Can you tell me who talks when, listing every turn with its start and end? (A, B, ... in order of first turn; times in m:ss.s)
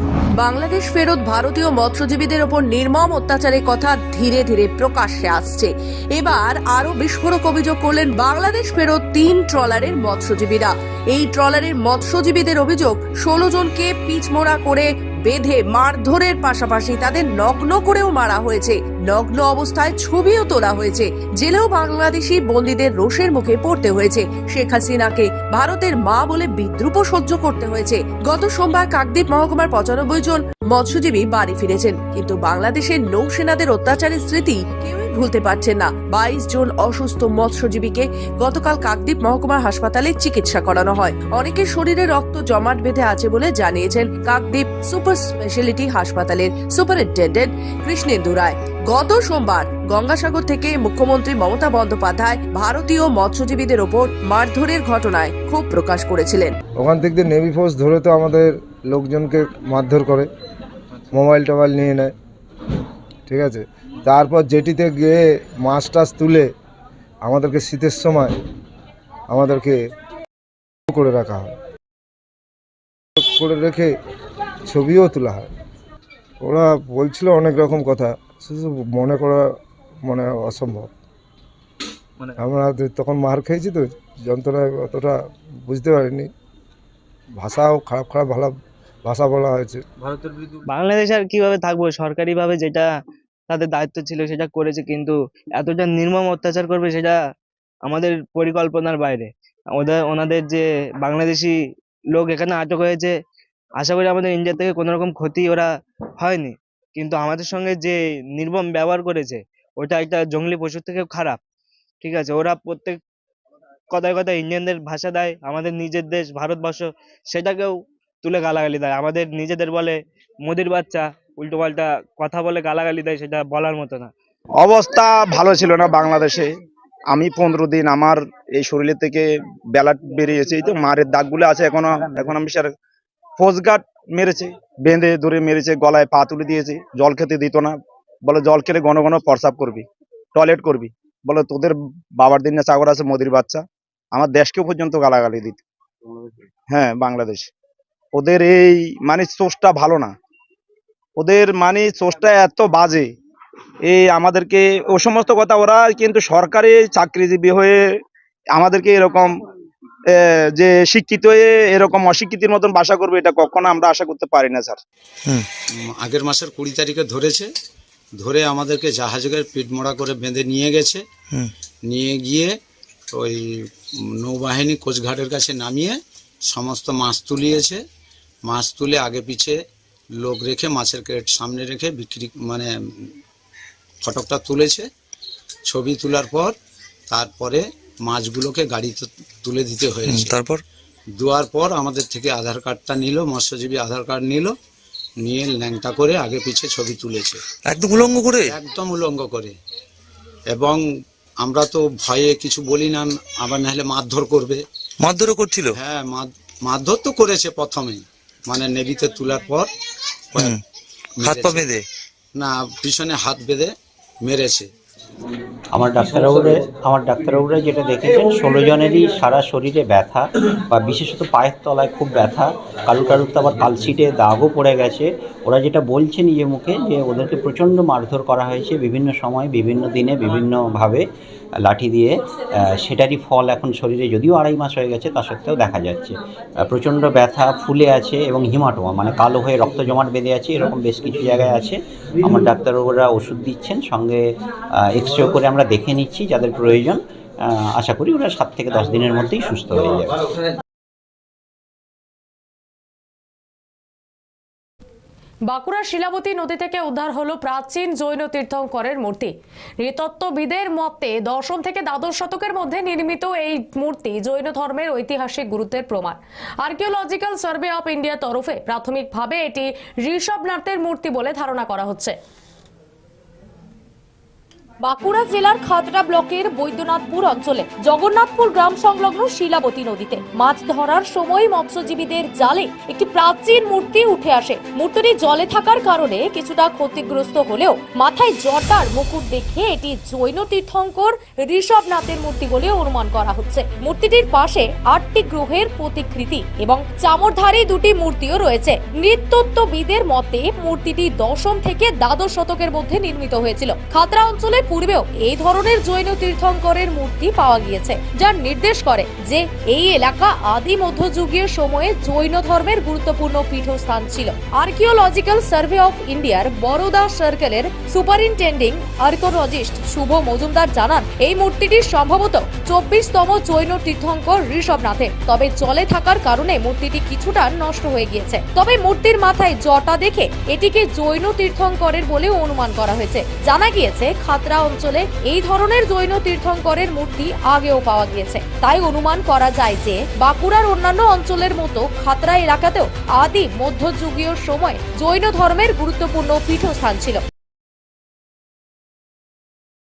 0:00.4-0:56.5 A
0:56.8-1:00.3 B
1:01.1-1:02.1 B
1:03.3-1:06.5 B
1:07.2-1:08.3 B
1:09.3-1:09.8 B
1:10.9-1:11.5 B
1:13.2-1:13.9 B
1:14.7-1:15.5 B
1:16.4-1:19.4 B
1:20.0-1:20.9 B
1:22.4-1:25.2 B
1:25.7-1:26.3 B
1:27.4-1:29.8 B
1:30.6-1:32.9 C
1:33.5-1:37.3 C
1:37.8-1:43.2 C
1:43.8-1:51.4 C
1:52.0-1:53.0 C
1:53.9-2:04.1 C
2:04.6-2:06.5 D
2:07.1-2:12.7 D
2:13.4-2:17.7 D
2:18.2-2:25.6 D
2:26.7-2:27.5 D
2:28.1-2:30.1 D
2:31.2-2:33.1 D
2:33.9-2:37.8 D
2:38.5-2:39.3 D
2:40.1-2:44.8 D
2:45.7-2:47.5 E
2:48.2-2:51.0 E
2:51.9-2:52.6 E
2:53.1-2:53.4 E
2:54.2-2:57.8 E
2:58.4-2:59.6 E
3:00.1-3:02.7 E
3:04.0-3:04.9 E
3:05.6-3:06.6 E
3:07.1-3:10.3 E
3:10.0-3:10.6 F
3:11.2-3:14.6 E
3:15.2-3:17.4 E
3:17.6-3:18.6 F
3:18.5-3:19.6 E
3:20.5-3:20.8 E
3:21.4-3:24.6 E
3:25.0-3:25.8 F
3:25.8-3:29.7 E
3:30.3-3:30.6 F
3:31.2-3:31.5 E
3:31.2-3:31.8 F
3:32.3-3:34.7 E
3:35.7-4:10.2 G
4:15.5-4:32.1 H
4:34.8-5:47.2 I